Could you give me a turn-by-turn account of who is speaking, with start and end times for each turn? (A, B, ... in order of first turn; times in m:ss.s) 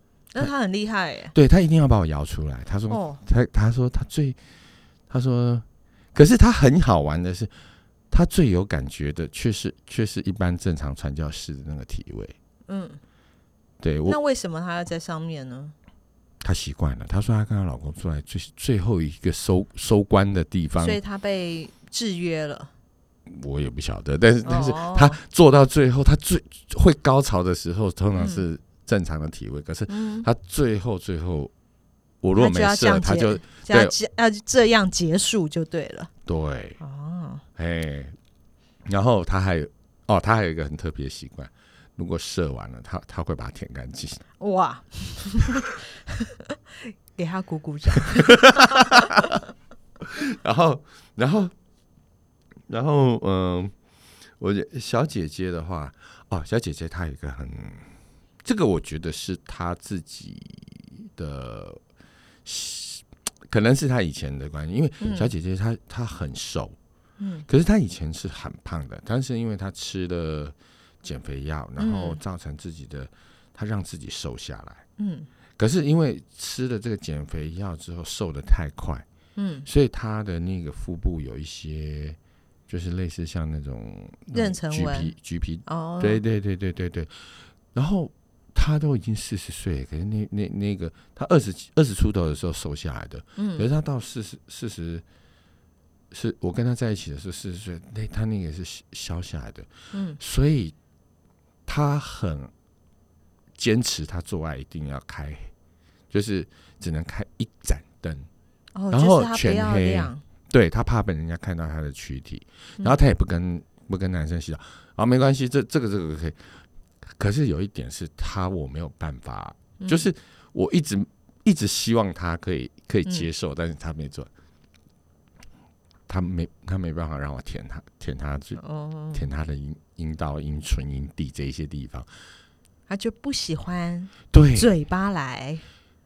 0:00.3-0:01.3 A
0:01.3-0:04.4 B
0:02.9-0:03.2 A
0:05.1-0:07.5 B
0:08.1-0:12.3 B
0:12.7-0:13.0 A
0:13.8-0:14.2 B
0:14.0-0:15.7 A
0:16.4-0:21.0 B
0:20.8-0:22.7 A
0:23.3-0:31.5 B
0:24.4-0:25.2 A
0:28.2-0:28.4 A
0:29.9-0:30.3 A
0:32.2-0:33.9 B
0:32.4-0:36.1 A
0:36.2-0:36.8 B
0:36.8-0:37.4 A
0:37.6-0:38.2 B
0:38.9-0:44.2 B
0:44.4-0:49.1 A
0:48.2-0:49.4 B
0:50.0-0:51.5 B
0:52.7-0:53.7 B
0:54.4-0:57.9 B
0:58.4-1:01.8 B
1:02.4-1:06.8 B
1:05.0-1:05.3 A
1:07.2-1:07.5 A
1:07.5-1:14.8 B
1:11.8-1:12.2 A
1:15.0-1:15.3 A
1:15.6-1:19.0 B
1:19.4-1:19.7 A
1:19.6-1:35.0 B
1:24.3-1:25.1 A
1:25.6-1:26.2 A
1:33.4-1:33.7 A
1:36.1-1:40.7 B
1:39.9-1:40.2 A
1:41.6-1:42.5 B
1:43.6-1:45.5 B
1:46.1-1:48.3 B
1:48.7-1:50.2 A
1:48.9-1:56.5 B
1:57.2-2:04.3 B
1:59.8-2:00.1 A
2:06.1-2:08.6 B
2:08.6-2:09.2 A
2:09.1-2:12.1 B
2:12.9-2:15.6 A
2:14.3-2:14.7 B